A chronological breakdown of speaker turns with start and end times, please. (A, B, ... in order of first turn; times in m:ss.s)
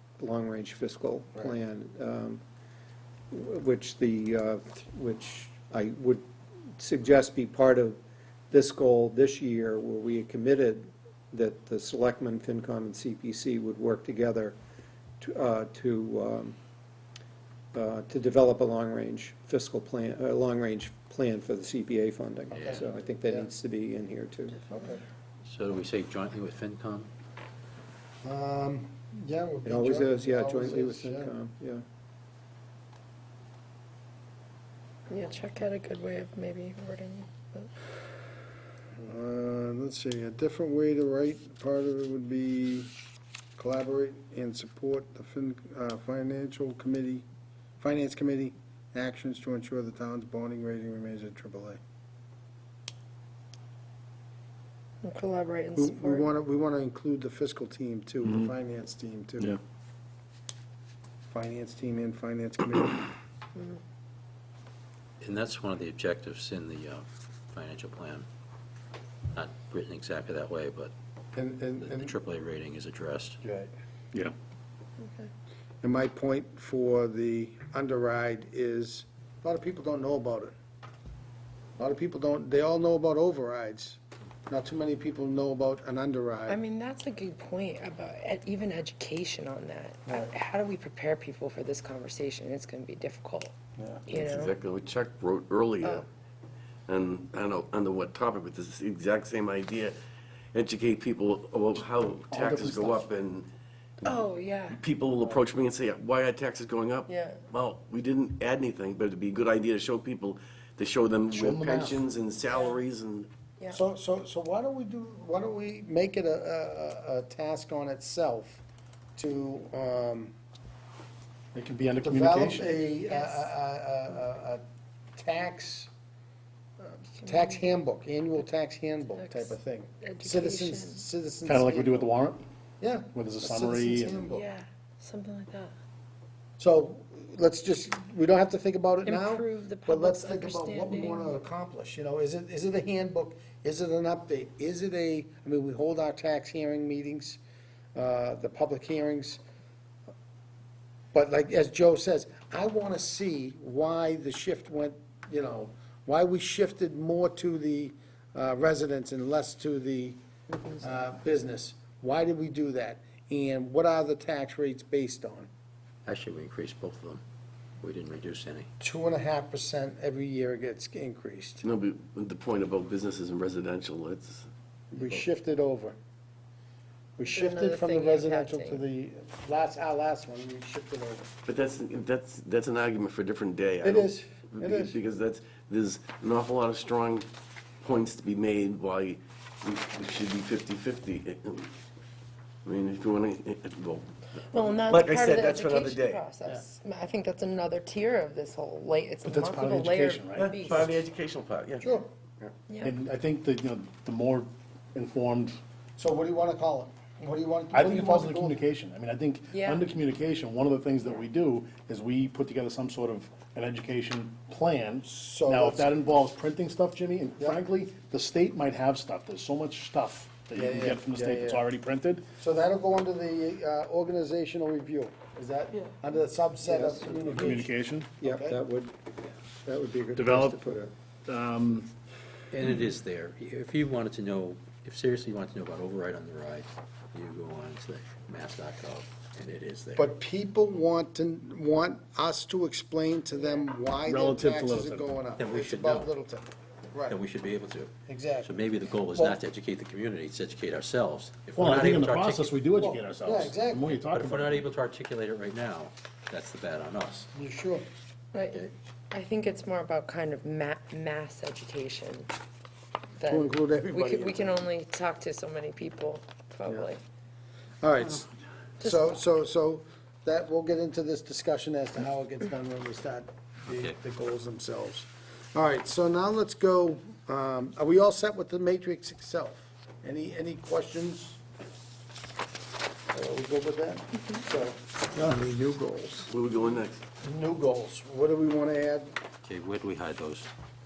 0:00.2-0:02.4 A
0:03.3-0:08.0 A
0:08.5-0:14.6 A
0:15.2-0:16.6 A
0:17.7-0:24.6 A
0:22.5-0:22.8 B
0:22.6-0:23.5 C
0:24.7-0:25.0 C
0:25.4-0:27.1 B
0:28.2-0:31.4 C
0:29.6-0:31.8 A
0:35.1-0:37.7 D
0:39.0-0:42.9 C
0:43.6-0:47.3 C
0:47.8-0:51.8 C
0:55.0-0:56.3 D
0:55.8-0:59.6 C
0:58.2-0:58.5 E
1:01.3-1:03.2 C
1:05.2-1:08.3 B
1:09.3-1:10.9 B
1:11.4-1:12.1 C
1:11.8-1:13.4 B
1:13.4-1:13.7 C
1:15.8-1:20.5 C
1:21.8-1:26.6 C
1:26.5-1:33.5 D
1:33.8-1:34.0 C
1:34.1-1:34.6 D
1:34.2-1:36.0 F
1:36.9-1:39.9 F
1:40.6-1:43.5 F
1:42.3-1:43.0 E
1:44.1-1:44.8 D
1:44.7-1:53.3 F
1:47.1-1:47.4 D
1:51.3-1:52.0 E
1:52.5-1:52.8 D
1:53.7-1:58.6 C
1:59.2-2:00.3 C
2:01.5-2:02.7 E
2:02.0-2:04.6 C
2:02.9-2:03.5 D
2:05.2-2:05.9 C
2:06.8-2:12.1 C
2:07.2-2:07.7 D
2:09.1-2:11.1 D
2:11.4-2:12.4 E
2:12.8-2:14.5 C
2:13.1-2:14.3 E
2:14.3-2:15.7 D
2:16.6-2:27.4 C
2:19.0-2:21.4 D
2:28.0-2:29.4 C
2:31.1-2:40.2 C
2:40.8-2:45.5 C
2:46.1-2:47.2 B
2:47.8-2:48.7 B
2:48.8-2:51.6 C
2:51.6-2:54.5 F
2:54.9-2:56.0 C
2:57.2-3:01.3 C
2:57.3-2:58.8 D
3:01.5-3:07.3 F
3:03.8-3:05.0 C
3:07.8-3:11.7 F
3:12.6-3:14.1 F
3:14.5-3:21.1 D
3:14.9-3:16.2 F
3:19.2-3:20.8 E
3:20.3-3:22.5 F
3:22.7-3:23.0 D
3:22.8-3:25.6 E
3:26.0-3:28.6 C
3:27.7-3:42.3 E
3:29.5-3:29.9 D
3:35.0-3:35.9 C
3:40.6-3:41.6 C
3:42.4-3:48.6 C
3:46.7-3:47.3 A
3:47.3-3:48.2 E
3:48.2-3:48.9 A
3:49.6-3:50.9 A
3:50.2-3:50.6 E
3:51.3-3:51.9 E
3:52.5-4:00.0 B
4:00.0-4:07.2 C
4:04.0-4:05.1 E
4:05.4-4:06.1 B
4:07.1-4:12.5 B
4:08.1-4:08.6 C
4:09.1-4:09.4 C
4:11.6-4:14.6 E
4:12.8-4:13.9 C
4:14.1-4:17.3 B
4:17.3-4:17.9 C
4:18.3-4:22.3 D
4:23.2-4:27.0 D
4:23.3-4:24.7 C
4:27.8-4:41.4 C
4:28.8-4:29.2 D
4:33.7-4:34.0 B
4:43.1-4:45.6 C
4:45.3-4:46.2 A
4:46.3-4:47.1 F
4:47.2-4:49.2 C
4:49.4-4:50.5 B